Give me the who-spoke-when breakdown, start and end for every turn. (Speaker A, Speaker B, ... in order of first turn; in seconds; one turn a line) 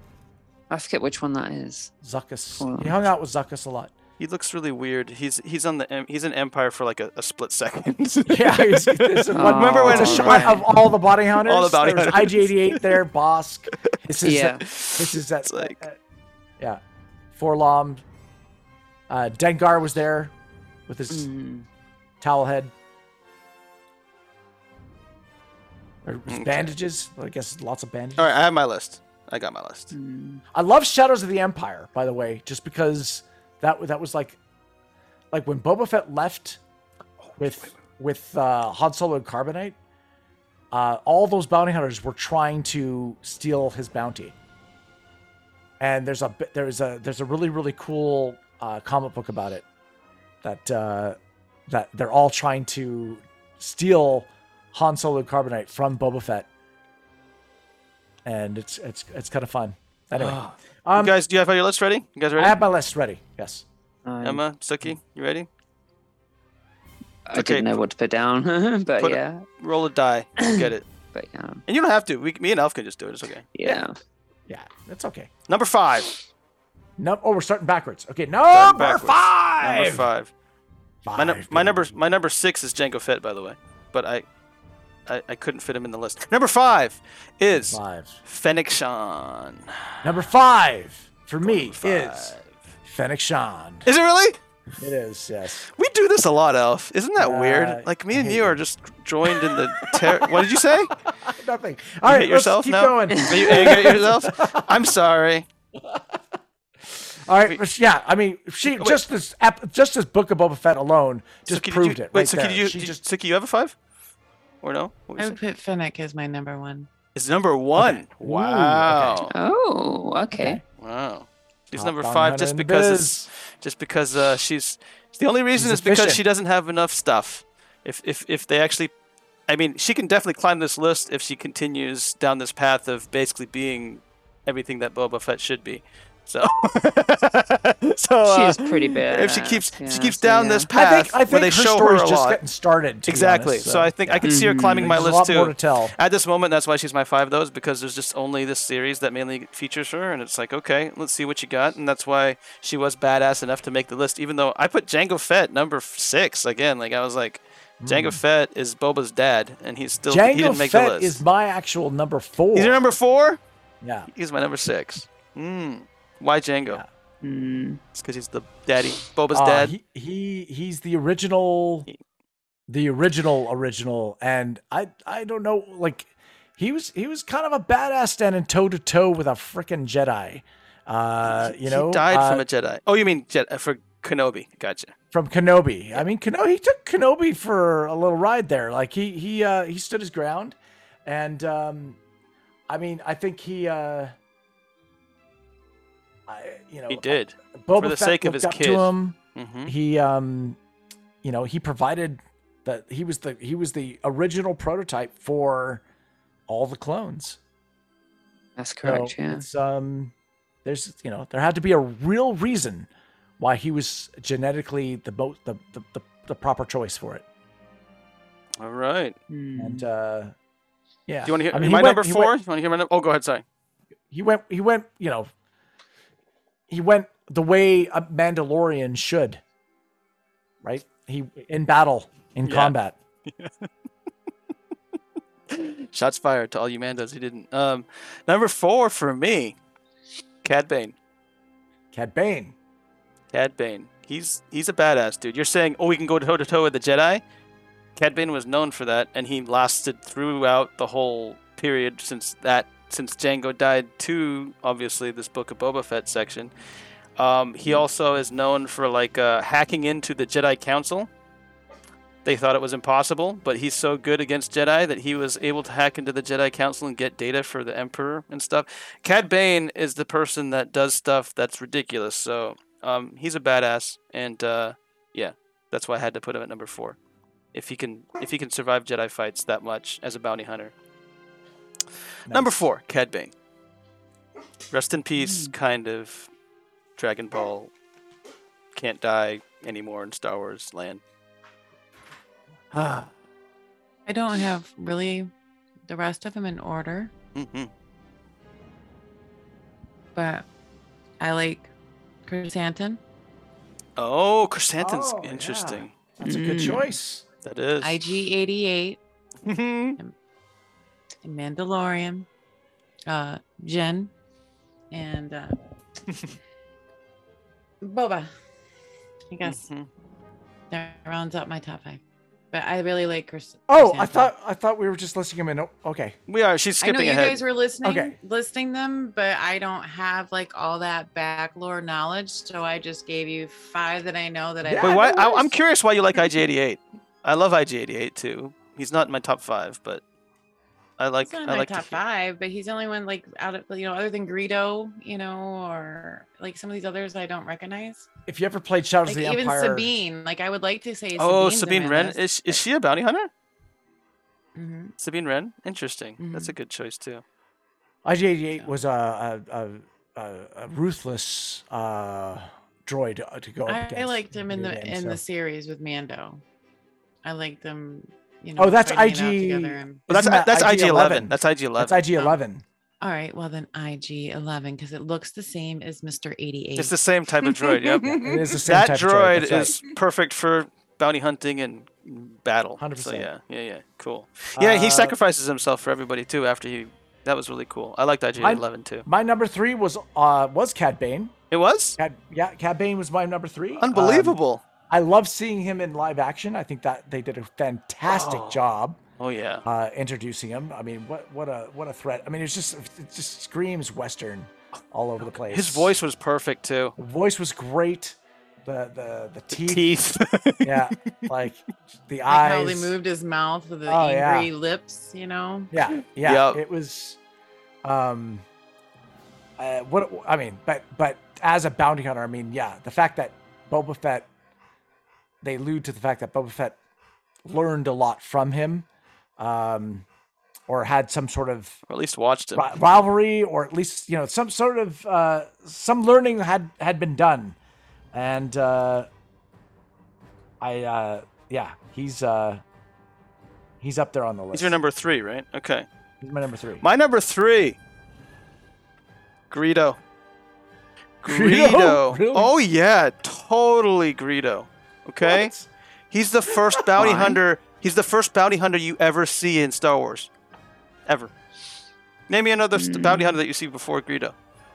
Speaker A: 0.7-1.9
Speaker B: 2.0-3.9
Speaker A: 2.6-2.9
Speaker C: 4.2-10.7
Speaker B: 8.3-16.0
Speaker A: 9.3-10.7
Speaker C: 11.4-12.9
Speaker A: 14.2-14.6
Speaker C: 14.7-15.8
Speaker B: 17.3-18.0
Speaker B: 19.1-20.3
Speaker B: 20.9-21.3
Speaker A: 21.1-21.7
Speaker B: 22.2-22.7
Speaker B: 26.1-28.3
Speaker C: 26.3-26.7
Speaker C: 28.2-29.9
Speaker A: 29.9-30.4
Speaker B: 30.5-34.4
Speaker B: 35.3-36.6
Speaker C: 37.3-37.7
Speaker B: 37.4-39.8
Speaker B: 40.7-44.4
Speaker B: 45.8-49.6
Speaker B: 50.4-51.2
Speaker B: 51.7-56.5
Speaker B: 58.2-61.1
Speaker C: 60.1-62.6
Speaker B: 62.4-63.6
Speaker A: 64.0-64.4
Speaker C: 64.2-65.5
Speaker A: 67.3-69.5
Speaker C: 67.3-67.8
Speaker C: 69.0-70.8
Speaker A: 70.4-71.6
Speaker C: 71.7-73.8
Speaker A: 73.5-74.0
Speaker B: 74.5-75.3
Speaker C: 75.5-76.1
Speaker B: 77.0-80.1
Speaker C: 78.5-80.3
Speaker B: 81.0-82.0
Speaker C: 81.2-84.3
Speaker C: 85.1-90.1
Speaker B: 87.6-88.2
Speaker B: 90.0-93.9
Speaker C: 91.4-92.5
Speaker C: 93.9-94.4
Speaker B: 94.8-95.7
Speaker C: 95.8-101.0
Speaker B: 97.2-98.6
Speaker B: 99.2-104.8
Speaker C: 102.0-105.5
Speaker A: 103.2-103.5
Speaker B: 105.8-106.2
Speaker B: 106.8-113.0
Speaker C: 108.6-109.0
Speaker C: 111.5-113.8
Speaker C: 114.6-115.4
Speaker D: 115.2-116.9
Speaker C: 117.2-119.3
Speaker B: 117.8-119.2
Speaker A: 119.3-120.6
Speaker B: 120.3-120.6
Speaker C: 120.8-128.9
Speaker B: 121.7-123.3
Speaker B: 125.6-126.2
Speaker C: 129.5-142.4
Speaker A: 138.2-140.7
Speaker B: 140.7-145.9
Speaker C: 143.1-161.2
Speaker A: 144.2-145.0
Speaker B: 157.8-158.2
Speaker B: 160.1-162.8
Speaker C: 162.5-163.4
Speaker B: 163.8-164.1
Speaker C: 164.1-166.8
Speaker A: 167.2-167.8
Speaker C: 167.9-169.8
Speaker B: 169.3-171.9
Speaker B: 172.7-182.4
Speaker C: 181.2-184.9
Speaker B: 185.1-192.0
Speaker B: 192.7-194.1
Speaker B: 196.3-200.6
Speaker C: 196.9-199.7
Speaker B: 201.2-205.8
Speaker B: 206.5-207.4
Speaker A: 208.6-209.4
Speaker B: 208.8-210.1
Speaker B: 210.7-217.2
Speaker C: 218.6-219.2
Speaker A: 219.3-219.8
Speaker B: 219.6-220.3
Speaker B: 221.1-222.3
Speaker C: 221.2-223.4
Speaker B: 224.1-225.3
Speaker B: 226.7-229.4
Speaker B: 230.6-233.0
Speaker C: 232.4-232.8
Speaker C: 233.3-233.7
Speaker C: 235.5-239.6
Speaker C: 240.4-240.9
Speaker B: 241.9-242.6
Speaker C: 243.3-247.2
Speaker C: 248.0-256.5
Speaker C: 257.2-261.1
Speaker C: 262.2-277.0
Speaker C: 277.5-280.7
Speaker B: 282.3-282.6
Speaker C: 282.3-283.3
Speaker C: 284.7-286.3
Speaker A: 285.2-285.5
Speaker C: 287.0-287.7
Speaker C: 288.8-291.0
Speaker C: 292.7-293.1
Speaker D: 294.1-295.3
Speaker D: 295.9-297.1
Speaker C: 297.4-297.7
Speaker D: 300.1-300.5
Speaker D: 301.2-301.7
Speaker D: 302.3-303.0
Speaker C: 304.0-305.9
Speaker B: 304.8-307.2
Speaker A: 306.2-306.9
Speaker C: 307.4-308.0
Speaker D: 307.8-309.0
Speaker C: 309.4-310.0
Speaker D: 311.2-312.3
Speaker D: 313.1-314.1
Speaker D: 314.9-315.6
Speaker D: 317.8-318.3
Speaker D: 319.3-319.7
Speaker C: 319.4-319.9
Speaker D: 320.7-322.0
Speaker D: 322.5-324.3
Speaker B: 323.7-326.1
Speaker C: 326.3-327.4
Speaker D: 326.8-335.5
Speaker B: 327.8-328.2
Speaker B: 334.6-335.0
Speaker C: 334.8-340.0
Speaker C: 341.0-342.0
Speaker D: 341.2-348.1
Speaker B: 348.3-349.9
Speaker D: 349.1-352.5
Speaker C: 351.2-353.3
Speaker D: 354.6-354.9
Speaker C: 355.0-357.2
Speaker D: 356.2-356.5
Speaker B: 358.1-365.2
Speaker D: 363.7-366.4
Speaker D: 367.2-370.0
Speaker B: 368.6-372.6
Speaker C: 370.1-372.1
Speaker D: 373.0-376.9
Speaker C: 376.8-389.1
Speaker B: 378.2-379.8
Speaker B: 382.8-383.3
Speaker B: 384.6-385.1
Speaker B: 388.4-391.3
Speaker C: 391.5-392.0
Speaker B: 392.0-394.4
Speaker C: 393.8-394.6
Speaker B: 394.9-399.0
Speaker C: 398.1-398.6
Speaker C: 399.2-399.6
Speaker B: 399.6-405.9
Speaker C: 405.2-406.9
Speaker B: 407.0-409.9
Speaker C: 409.5-411.3
Speaker B: 410.6-412.9
Speaker D: 412.3-415.7
Speaker B: 413.9-414.5
Speaker B: 415.7-417.2
Speaker C: 416.2-416.6
Speaker B: 417.8-418.4
Speaker B: 419.6-424.3
Speaker B: 425.4-426.8
Speaker B: 427.4-428.9
Speaker B: 429.4-430.1
Speaker B: 430.7-431.8
Speaker C: 431.9-432.7
Speaker B: 432.6-437.6
Speaker B: 438.1-439.1
Speaker B: 440.6-442.6
Speaker B: 443.8-444.8
Speaker C: 444.5-445.9
Speaker B: 446.2-446.8
Speaker C: 446.8-447.8
Speaker C: 449.5-450.0
Speaker C: 451.2-455.5
Speaker B: 451.2-452.5
Speaker B: 455.2-455.7
Speaker C: 456.1-460.3
Speaker A: 457.0-457.4
Speaker C: 461.1-461.3
Speaker C: 462.3-464.4
Speaker A: 462.8-463.4